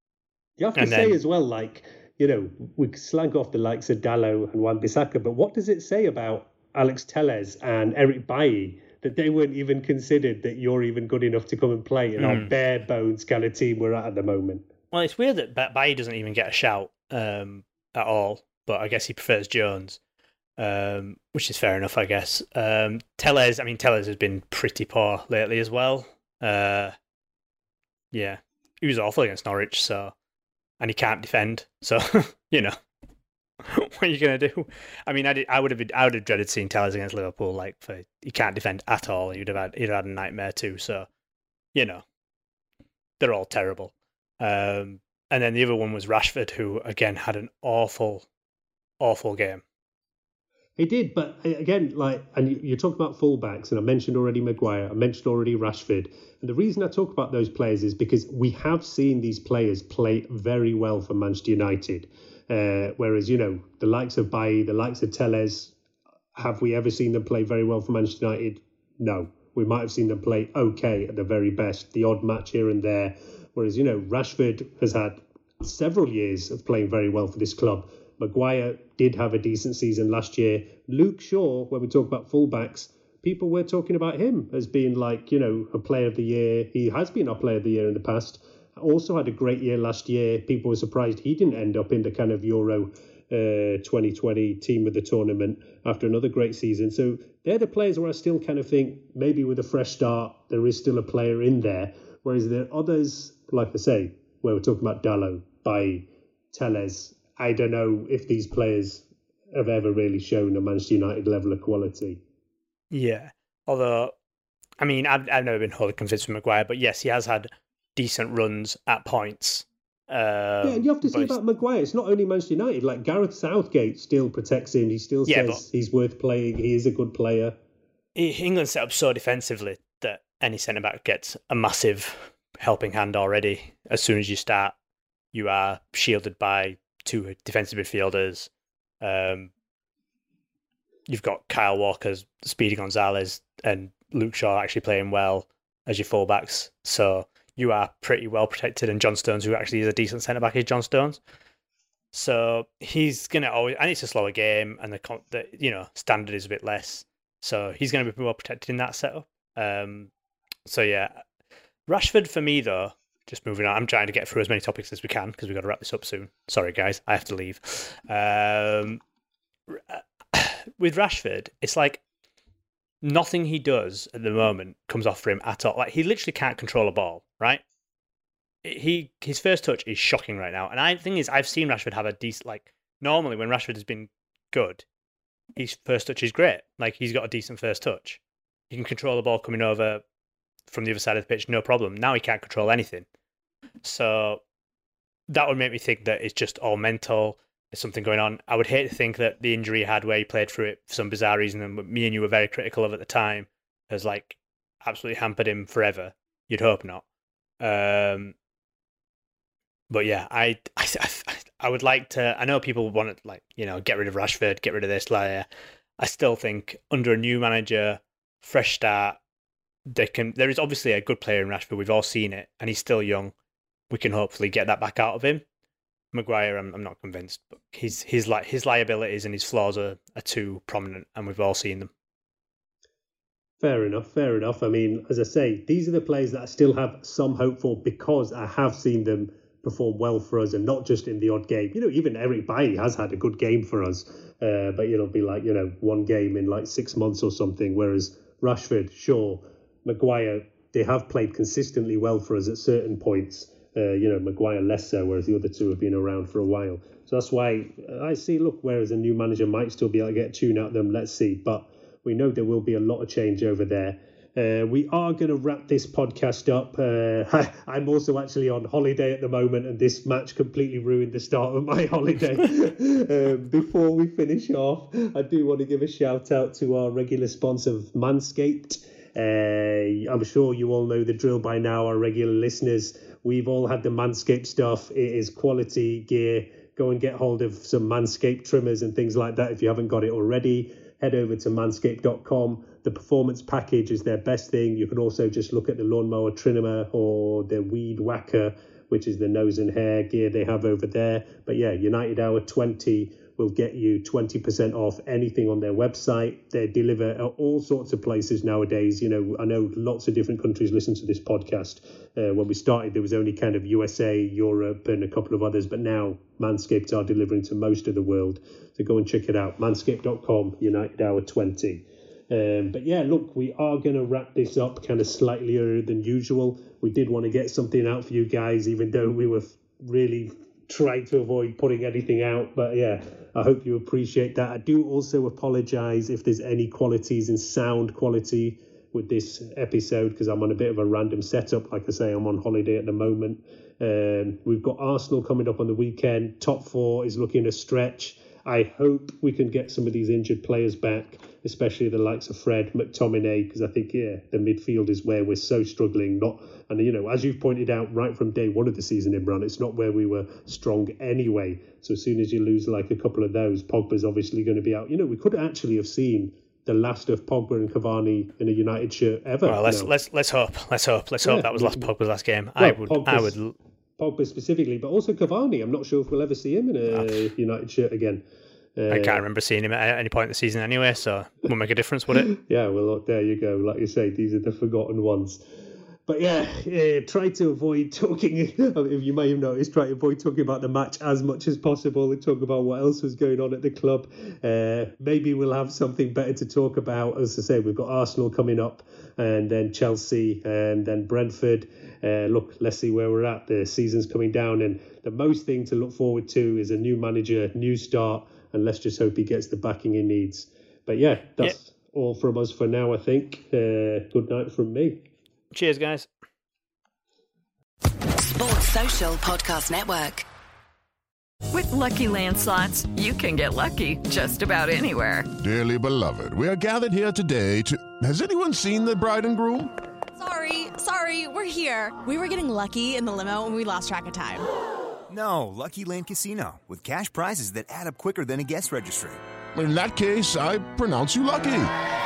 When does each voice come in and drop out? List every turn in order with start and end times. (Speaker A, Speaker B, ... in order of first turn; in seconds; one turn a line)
Speaker A: 0.6-14.7
Speaker B: 0.8-1.2
Speaker B: 12.2-12.5
Speaker B: 14.9-20.0
Speaker B: 20.6-26.9
Speaker B: 28.1-30.1
Speaker B: 30.8-32.7
Speaker B: 33.6-41.1
Speaker B: 41.7-42.0
Speaker B: 43.2-48.2
Speaker B: 49.0-49.6
Speaker A: 50.8-65.7
Speaker A: 66.3-112.2
Speaker B: 112.9-114.1
Speaker B: 114.8-121.3
Speaker A: 120.6-127.6
Speaker B: 125.3-125.6
Speaker B: 128.2-134.7
Speaker B: 135.3-138.5
Speaker B: 139.0-139.5
Speaker B: 141.1-151.2
Speaker B: 152.1-160.1
Speaker B: 160.7-161.2
Speaker B: 161.9-169.0
Speaker B: 169.7-172.0
Speaker B: 173.0-177.6
Speaker B: 178.6-184.8
Speaker B: 185.6-190.0
Speaker B: 190.7-193.1
Speaker B: 193.8-194.4
Speaker B: 195.3-207.0
Speaker B: 207.6-208.3
Speaker B: 209.9-215.4
Speaker B: 216.0-219.2
Speaker B: 219.9-223.3
Speaker B: 223.9-225.4
Speaker B: 226.1-231.9
Speaker A: 233.6-369.9
Speaker B: 369.4-373.5
Speaker A: 371.2-371.9
Speaker A: 372.6-373.4
Speaker A: 374.0-378.2
Speaker B: 376.9-377.2
Speaker A: 378.8-379.2
Speaker B: 378.9-382.3
Speaker A: 382.2-385.4
Speaker A: 386.1-415.1
Speaker B: 415.5-416.1
Speaker C: 418.2-420.2
Speaker D: 421.5-425.3
Speaker E: 425.4-429.7
Speaker F: 430.1-434.4
Speaker G: 435.1-439.2
Speaker E: 439.5-441.7